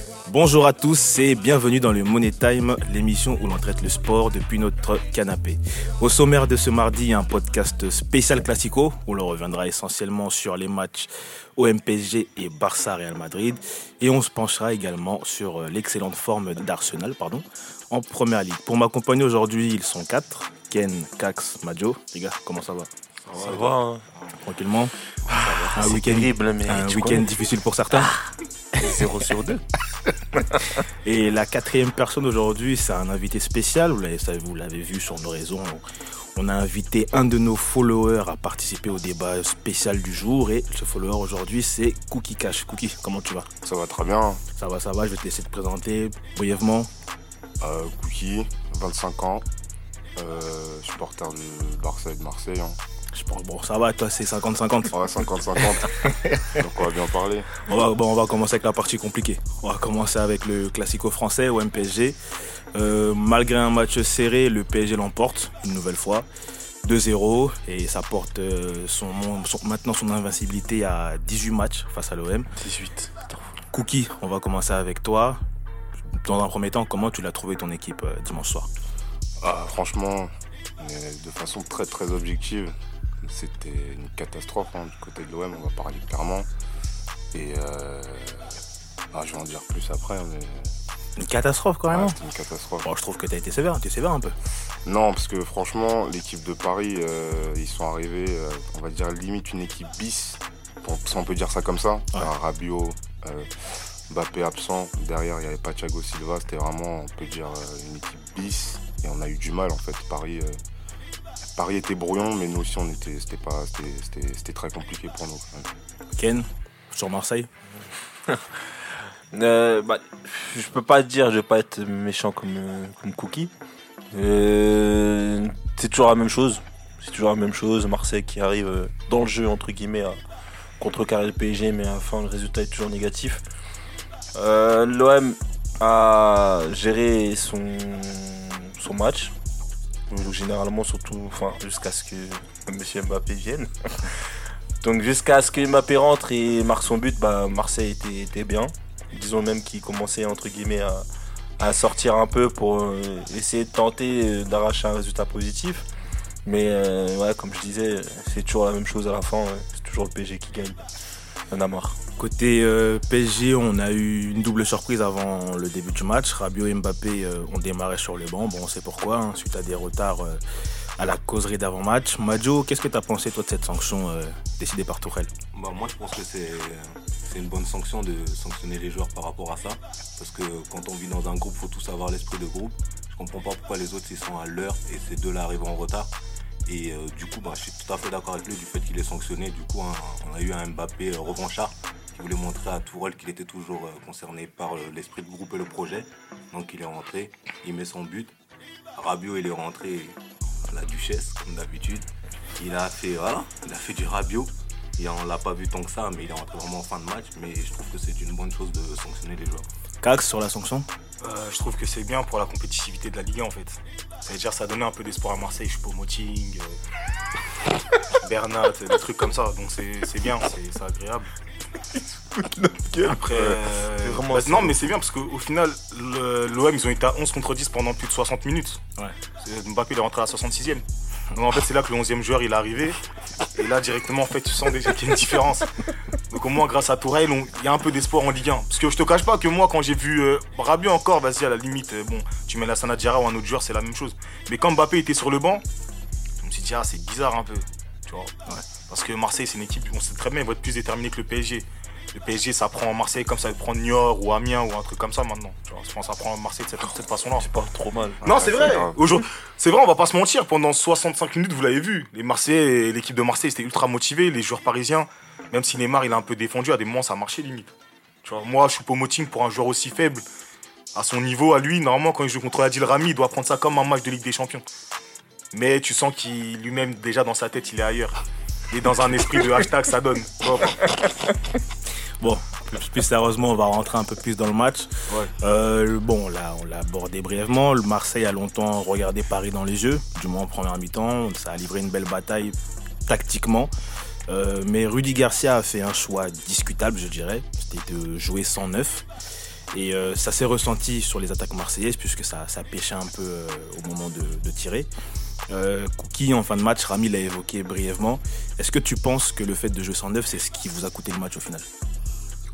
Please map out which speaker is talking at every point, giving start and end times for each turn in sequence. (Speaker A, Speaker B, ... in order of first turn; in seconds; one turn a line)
Speaker A: 0.3-22.9
Speaker B: 23.2-23.8
Speaker C: 23.3-24.1
Speaker A: 24.4-24.9
Speaker C: 25.3-27.3
Speaker A: 25.8-28.1
Speaker C: 27.9-29.6
Speaker A: 31.0-35.8
Speaker A: 36.4-43.5
Speaker D: 43.6-44.4
Speaker A: 44.6-46.9
Speaker D: 47.6-49.5
Speaker D: 50.2-52.8
Speaker A: 53.1-55.0
Speaker D: 54.9-55.9
Speaker D: 56.5-57.5
Speaker A: 57.6-62.2
Speaker A: 62.7-66.3
Speaker A: 66.8-72.5
Speaker C: 72.6-73.6
Speaker A: 73.7-75.4
Speaker A: 76.2-78.7
Speaker D: 79.4-86.5
Speaker D: 87.3-88.6
Speaker D: 89.1-90.7
Speaker A: 91.2-92.2
Speaker D: 91.9-92.8
Speaker A: 92.8-94.3
Speaker D: 94.8-110.6
Speaker D: 111.6-115.7
Speaker A: 116.2-117.5
Speaker C: 119.3-123.5
Speaker C: 124.1-130.2
Speaker C: 130.8-133.4
Speaker C: 134.3-139.3
Speaker C: 140.1-144.2
Speaker C: 144.8-151.0
Speaker C: 151.6-155.8
Speaker C: 156.4-160.8
Speaker C: 161.5-162.0
Speaker A: 162.2-170.4
Speaker A: 171.0-175.3
Speaker B: 175.5-186.1
Speaker B: 186.7-198.3
Speaker B: 198.9-202.1
Speaker B: 202.6-209.7
Speaker A: 210.0-210.9
Speaker E: 211.2-216.8
Speaker E: 218.1-221.3
Speaker C: 222.3-224.8
Speaker E: 223.0-228.8
Speaker E: 229.4-233.0
Speaker E: 233.5-245.6
Speaker E: 246.4-248.3
Speaker E: 248.8-257.5
Speaker C: 257.4-258.2
Speaker D: 258.2-259.0
Speaker E: 258.2-267.7
Speaker E: 268.2-270.2
Speaker E: 270.9-274.6
Speaker E: 275.5-278.2
Speaker E: 278.7-281.0
Speaker A: 282.2-292.6
Speaker A: 293.1-293.7
Speaker A: 294.3-299.1
Speaker A: 299.7-304.9
Speaker A: 305.5-311.7